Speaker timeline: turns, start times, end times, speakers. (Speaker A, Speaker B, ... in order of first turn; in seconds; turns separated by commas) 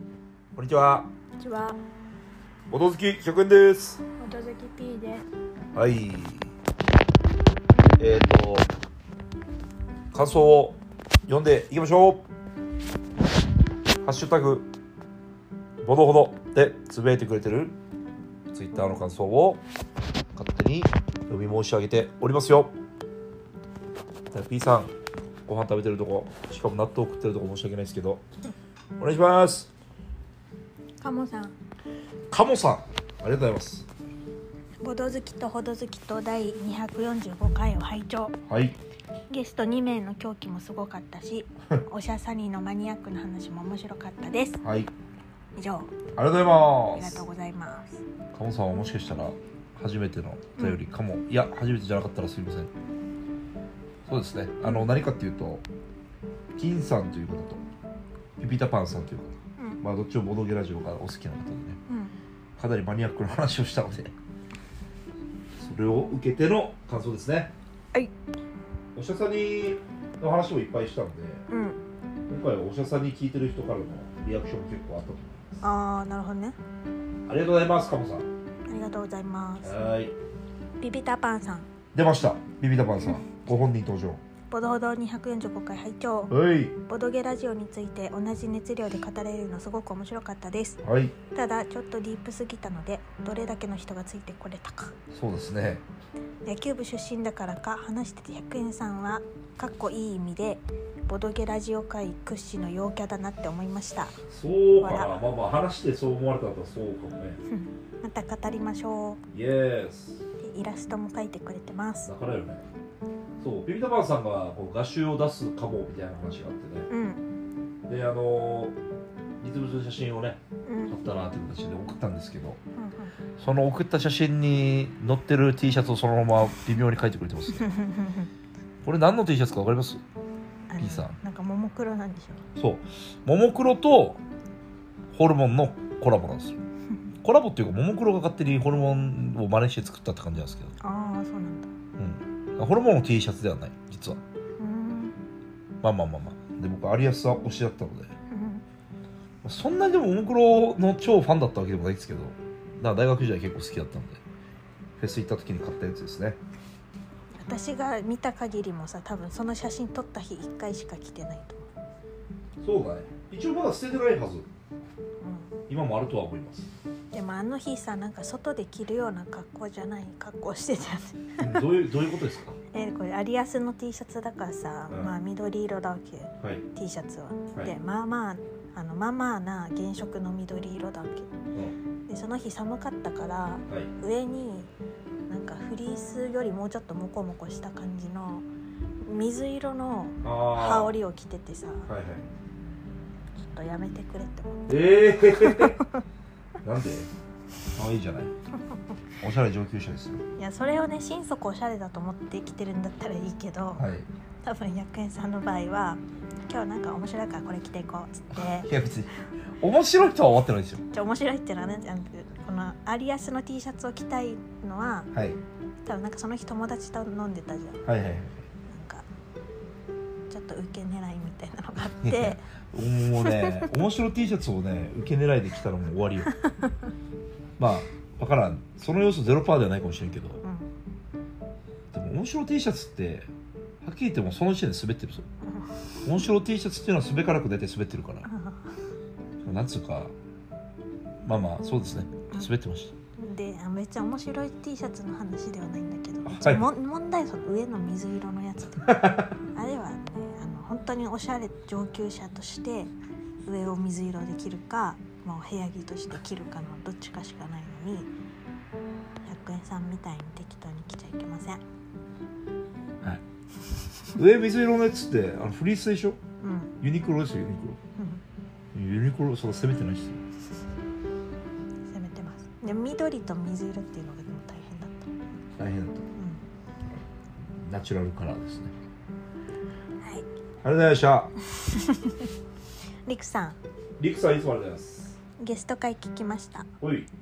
Speaker A: 0.5-1.1, Speaker B: 1.4-1.8, Speaker A: 2.7-4.0, Speaker B: 4.2-5.2, Speaker A: 5.7-6.5, Speaker A: 8.0-8.7, Speaker A: 10.1-12.2, Speaker A: 14.0-14.7, Speaker A: 15.8-17.8, Speaker A: 18.5-19.6, Speaker A: 20.3-22.7, Speaker A: 24.3-24.9, Speaker A: 25.5-28.2, Speaker A: 29.0-29.7, Speaker B: 31.0-31.5, Speaker A: 32.3-33.9, Speaker B: 34.8-38.4, Speaker A: 38.5-38.8, Speaker B: 39.3-44.6, Speaker A: 44.6-44.9, Speaker B: 45.5-46.1, Speaker A: 46.1-47.2, Speaker B: 46.9-48.0, Speaker A: 48.3-52.7, Speaker B: 50.5-50.8, Speaker A: 54.1-55.6, Speaker B: 54.6-54.9, Speaker A: 56.5-57.6, Speaker A: 58.4-61.8, Speaker B: 61.9-62.1, Speaker A: 62.6-64.1, Speaker A: 65.6-67.5, Speaker A: 68.9-71.4, Speaker B: 71.5-71.8, Speaker A: 72.3-75.6, Speaker B: 75.6-76.5, Speaker A: 77.3-78.3, Speaker B: 78.7-79.9, Speaker A: 79.6-80.1, Speaker B: 80.8-81.7, Speaker A: 81.9-84.2, Speaker B: 84.5-94.9, Speaker A: 86.3-86.7, Speaker A: 90.8-91.2, Speaker A: 95.1-95.8, Speaker B: 96.5-105.2, Speaker A: 104.3-107.4, Speaker B: 107.5-109.2, Speaker A: 109.3-110.2, Speaker B: 110.4-112.1, Speaker A: 112.0-112.6, Speaker A: 113.4-116.9, Speaker B: 116.9-117.2, Speaker A: 117.9-118.8, Speaker A: 119.4-122.6, Speaker B: 120.6-121.0, Speaker B: 122.8-123.1, Speaker A: 123.4-127.7, Speaker B: 127.6-128.3, Speaker A: 128.8-130.0, Speaker B: 130.7-132.4, Speaker A: 130.8-131.2, Speaker A: 132.6-134.2, Speaker A: 135.1-136.6, Speaker A: 137.2-140.7, Speaker B: 140.8-141.7, Speaker A: 142.0-144.2, Speaker B: 144.6-145.1, Speaker A: 145.8-148.1, Speaker B: 148.3-148.6, Speaker A: 149.4-154.2, Speaker A: 155.0-156.4, Speaker B: 157.3-161.7, Speaker A: 162.6-164.5, Speaker B: 165.2-165.6, Speaker A: 165.7-166.7, Speaker B: 167.1-171.9, Speaker A: 171.4-172.6, Speaker B: 172.7-181.3, Speaker B: 182.1-184.7, Speaker B: 185.3-188.4, Speaker B: 189.0-191.9, Speaker A: 190.2-190.9, Speaker A: 191.8-192.2, Speaker B: 193.4-196.0, Speaker A: 194.7-195.8, Speaker A: 196.6-197.1, Speaker A: 197.7-198.3, Speaker A: 199.2-200.2, Speaker B: 200.4-203.9, Speaker A: 203.8-204.1, Speaker B: 204.4-208.7, Speaker A: 208.3-210.8, Speaker B: 210.9-215.1, Speaker A: 215.1-215.4, Speaker B: 215.8-217.8, Speaker A: 217.8-218.4, Speaker B: 218.7-219.1, Speaker B: 220.3-222.5, Speaker A: 222.0-226.3, Speaker B: 223.2-223.8, Speaker B: 226.2-226.7, Speaker A: 227.6-230.4, Speaker B: 230.4-230.7, Speaker A: 231.9-233.3, Speaker A: 233.8-235.2, Speaker B: 235.5-235.7, Speaker A: 236.0-238.3, Speaker B: 238.2-238.7, Speaker A: 239.4-240.1, Speaker A: 241.2-242.9, Speaker B: 243.2-252.9, Speaker A: 246.2-246.7, Speaker A: 248.9-249.2, Speaker B: 253.4-258.1, Speaker B: 259.2-261.6, Speaker A: 264.2-266.2, Speaker B: 266.4-266.8, Speaker A: 266.8-267.8, Speaker B: 267.9-268.2, Speaker A: 268.7-270.2, Speaker B: 271.9-275.1, Speaker A: 275.6-276.0, Speaker B: 276.1-276.4, Speaker A: 277.6-278.7, Speaker A: 280.6-281.3, Speaker B: 281.4-282.3, Speaker B: 283.1-283.6, Speaker A: 284.0-285.2, Speaker B: 285.4-286.7, Speaker A: 286.8-287.1